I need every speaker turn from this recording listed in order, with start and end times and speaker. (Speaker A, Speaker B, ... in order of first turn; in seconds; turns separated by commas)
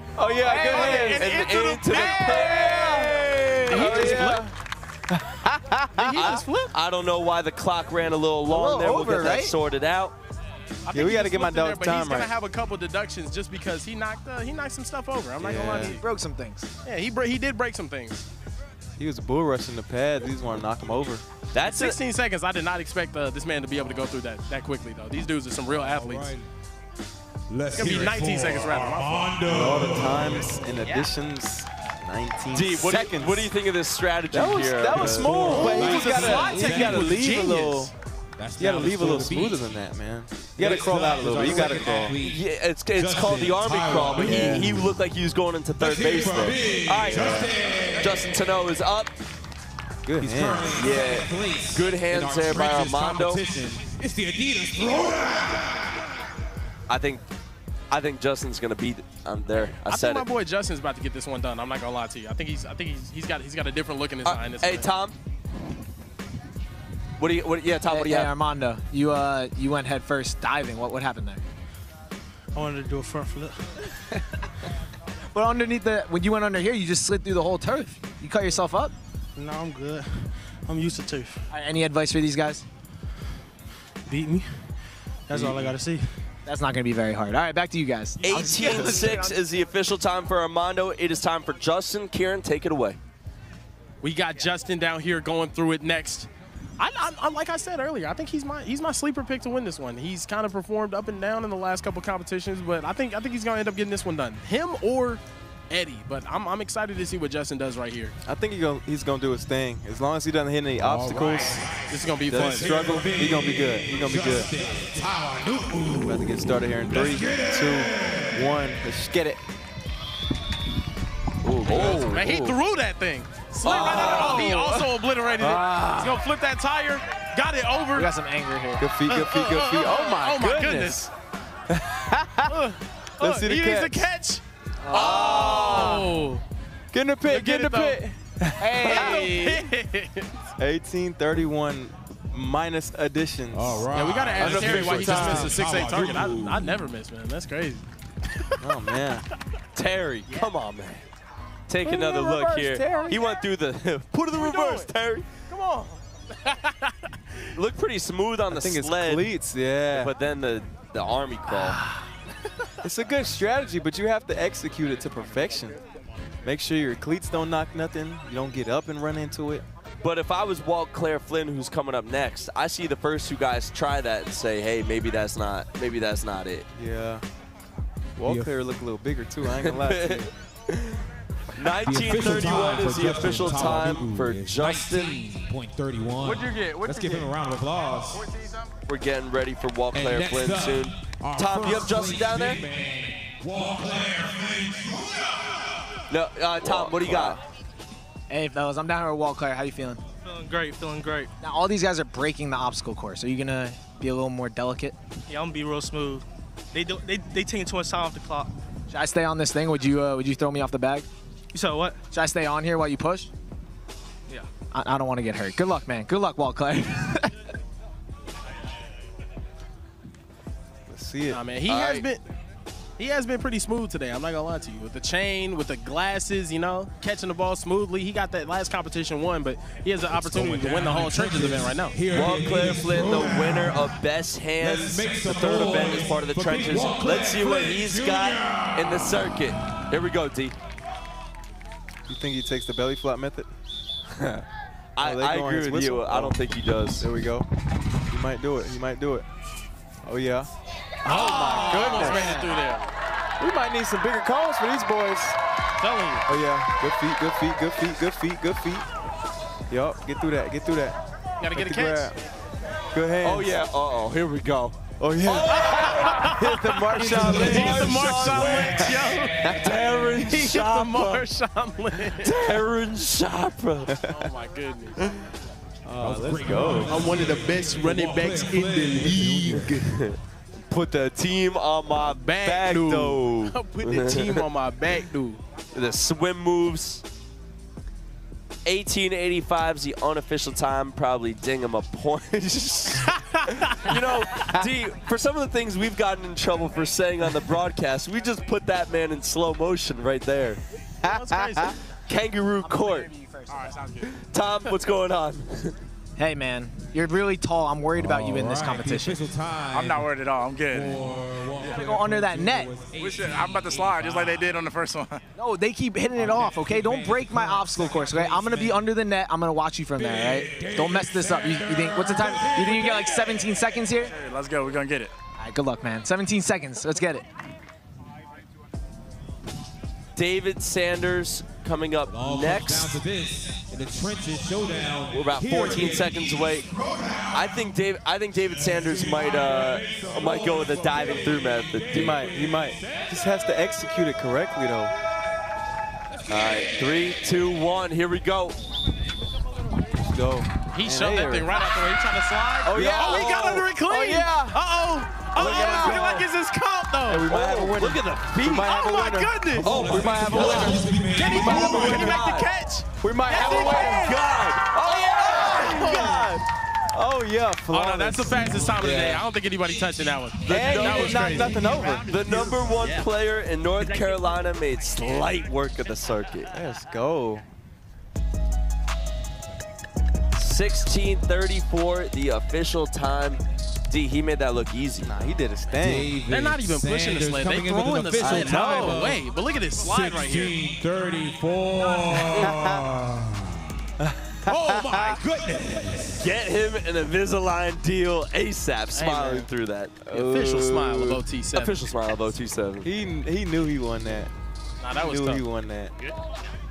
Speaker A: 0.1-1.3, Speaker B: 0.4-1.1, Speaker C: 0.5-3.1, Speaker D: 0.7-3.1, Speaker A: 2.0-4.5, Speaker D: 3.7-4.3, Speaker C: 3.7-4.5, Speaker A: 5.1-6.2, Speaker C: 6.0-6.7, Speaker D: 6.1-10.1, Speaker B: 8.5-9.5, Speaker C: 10.9-16.0, Speaker A: 10.9-12.3, Speaker A: 15.4-16.0, Speaker B: 15.8-16.7, Speaker C: 16.8-18.3, Speaker A: 19.0-21.2, Speaker D: 21.5-22.0, Speaker C: 21.6-26.3, Speaker E: 25.7-26.4, Speaker E: 27.5-30.5, Speaker C: 27.7-29.3, Speaker A: 29.5-33.5, Speaker D: 32.5-35.9, Speaker A: 34.3-37.9, Speaker E: 34.9-37.7, Speaker B: 35.5-37.1, Speaker C: 35.9-37.9, Speaker E: 38.4-39.6, Speaker A: 38.6-42.2, Speaker E: 40.5-45.0, Speaker D: 42.2-49.1, Speaker A: 44.2-44.6, Speaker E: 45.8-48.4, Speaker A: 47.1-47.5, Speaker A: 50.0-50.8, Speaker E: 50.2-55.8, Speaker D: 50.8-53.4, Speaker D: 56.9-57.2, Speaker D: 57.9-60.2, Speaker C: 59.9-64.9, Speaker D: 64.2-65.2, Speaker D: 67.2-68.3, Speaker B: 67.9-71.4, Speaker F: 72.5-73.7, Speaker B: 75.3-78.9, Speaker F: 79.4-81.4, Speaker B: 81.5-82.6, Speaker F: 84.0-84.7, Speaker F: 85.3-86.1, Speaker A: 85.3-85.6, Speaker B: 86.5-89.4, Speaker D: 88.2-93.0, Speaker C: 94.0-108.1, Speaker A: 108.2-111.6, Speaker E: 110.8-118.3, Speaker C: 111.9-112.7, Speaker A: 112.3-114.5, Speaker A: 116.0-119.4, Speaker A: 121.4-122.6, Speaker C: 121.6-128.1, Speaker E: 121.7-122.0, Speaker A: 123.6-124.9, Speaker A: 125.4-126.2, Speaker B: 127.9-128.9, Speaker A: 128.8-131.0, Speaker C: 129.1-131.1, Speaker A: 131.7-132.5, Speaker C: 132.4-136.4, Speaker A: 133.2-134.1, Speaker B: 134.9-135.8, Speaker D: 134.9-136.0, Speaker A: 134.9-136.0, Speaker A: 136.9-139.3, Speaker C: 137.2-138.0, Speaker C: 138.6-140.4, Speaker B: 138.8-139.5, Speaker A: 140.6-145.6, Speaker E: 143.5-146.8, Speaker C: 143.9-148.6, Speaker A: 148.6-149.2, Speaker D: 149.7-151.0, Speaker D: 151.7-155.3, Speaker A: 151.8-153.2, Speaker C: 154.3-154.9, Speaker C: 155.4-157.2, Speaker D: 157.6-159.3, Speaker A: 158.5-160.1, Speaker D: 159.9-161.8, Speaker A: 162.8-165.8, Speaker A: 166.4-169.7, Speaker D: 170.0-176.7, Speaker A: 176.7-177.2, Speaker A: 178.2-180.3, Speaker E: 178.2-178.5, Speaker D: 179.6-181.0, Speaker D: 181.6-185.2, Speaker E: 181.7-188.2, Speaker G: 186.2-187.3, Speaker G: 188.1-188.7, Speaker D: 188.9-192.6, Speaker E: 189.9-195.3, Speaker D: 196.1-197.4, Speaker A: 196.8-197.4, Speaker E: 197.0-197.3, Speaker B: 198.3-200.0, Speaker F: 200.2-201.3, Speaker B: 201.4-204.9, Speaker F: 205.3-208.5, Speaker B: 208.9-211.1, Speaker F: 211.5-212.0, Speaker B: 212.1-213.3, Speaker B: 214.7-217.3, Speaker A: 220.9-221.4, Speaker C: 221.3-222.2, Speaker D: 221.7-222.1, Speaker C: 223.0-232.0, Speaker E: 230.2-233.9, Speaker D: 232.1-240.5, Speaker E: 234.6-239.5, Speaker A: 242.1-243.5, Speaker D: 244.2-244.4, Speaker D: 244.9-247.1, Speaker A: 245.0-246.4, Speaker A: 247.0-247.4, Speaker A: 248.1-249.2, Speaker A: 250.0-250.5, Speaker A: 251.0-252.5, Speaker C: 251.0-252.9, Speaker A: 253.4-255.4, Speaker C: 255.8-256.2, Speaker A: 256.3-258.9, Speaker A: 259.7-261.0, Speaker C: 261.4-262.1, Speaker A: 261.5-262.2, Speaker A: 262.9-263.5, Speaker D: 263.2-266.4, Speaker A: 265.0-269.6, Speaker C: 265.6-272.5, Speaker D: 267.0-269.0, Speaker D: 269.6-271.2, Speaker D: 272.2-273.9, Speaker A: 273.9-274.2, Speaker C: 274.0-275.0, Speaker A: 275.8-277.1, Speaker E: 276.0-279.9, Speaker C: 276.9-279.0, Speaker F: 277.1-277.8, Speaker F: 278.4-279.2, Speaker D: 279.7-280.2, Speaker D: 280.7-284.4, Speaker C: 282.0-285.4, Speaker D: 285.7-287.0, Speaker D: 288.6-293.1, Speaker C: 293.0-294.0, Speaker D: 293.6-300.6, Speaker C: 301.0-301.7, Speaker A: 301.1-301.7, Speaker D: 302.1-303.1, Speaker B: 302.6-303.8, Speaker G: 303.5-304.1, Speaker D: 304.1-305.8, Speaker B: 306.2-309.2, Speaker E: 307.9-310.1, Speaker G: 309.7-311.0, Speaker E: 310.7-314.5, Speaker G: 311.6-311.8, Speaker B: 311.6-312.7, Speaker G: 313.0-315.2, Speaker B: 315.4-324.1, Speaker E: 316.1-318.9, Speaker E: 320.0-323.3, Speaker G: 324.1-325.1, Speaker B: 325.4-327.2, Speaker D: 330.1-333.0, Speaker E: 332.1-337.7, Speaker D: 335.1-336.7, Speaker D: 337.3-342.2, Speaker E: 338.5-343.5, Speaker A: 341.9-344.9, Speaker D: 346.3-348.6, Speaker A: 350.1-351.5, Speaker C: 350.7-357.3, Speaker A: 352.6-354.6, Speaker D: 352.8-353.4, Speaker A: 355.3-356.2, Speaker D: 355.4-356.2, Speaker A: 357.1-360.8, Speaker D: 357.2-358.8, Speaker C: 358.5-360.5, Speaker D: 359.6-362.5, Speaker E: 359.6-362.2, Speaker C: 361.1-364.3, Speaker A: 361.4-362.1, Speaker A: 363.0-364.1, Speaker D: 363.3-366.4, Speaker C: 364.8-366.3, Speaker A: 366.9-369.2, Speaker C: 367.7-372.0, Speaker A: 370.4-372.5, Speaker D: 370.4-376.5, Speaker A: 376.5-377.4, Speaker D: 380.3-385.1, Speaker A: 385.0-386.1, Speaker E: 385.8-389.2, Speaker C: 386.3-390.6, Speaker A: 388.2-389.2, Speaker E: 389.8-393.7, Speaker A: 392.3-392.8, Speaker A: 394.0-395.2, Speaker E: 394.4-396.3, Speaker D: 396.2-400.0, Speaker C: 398.9-399.5, Speaker A: 400.0-401.2, Speaker C: 400.1-402.1, Speaker D: 401.5-402.9, Speaker A: 402.8-404.3, Speaker C: 404.8-405.4, Speaker A: 404.9-405.9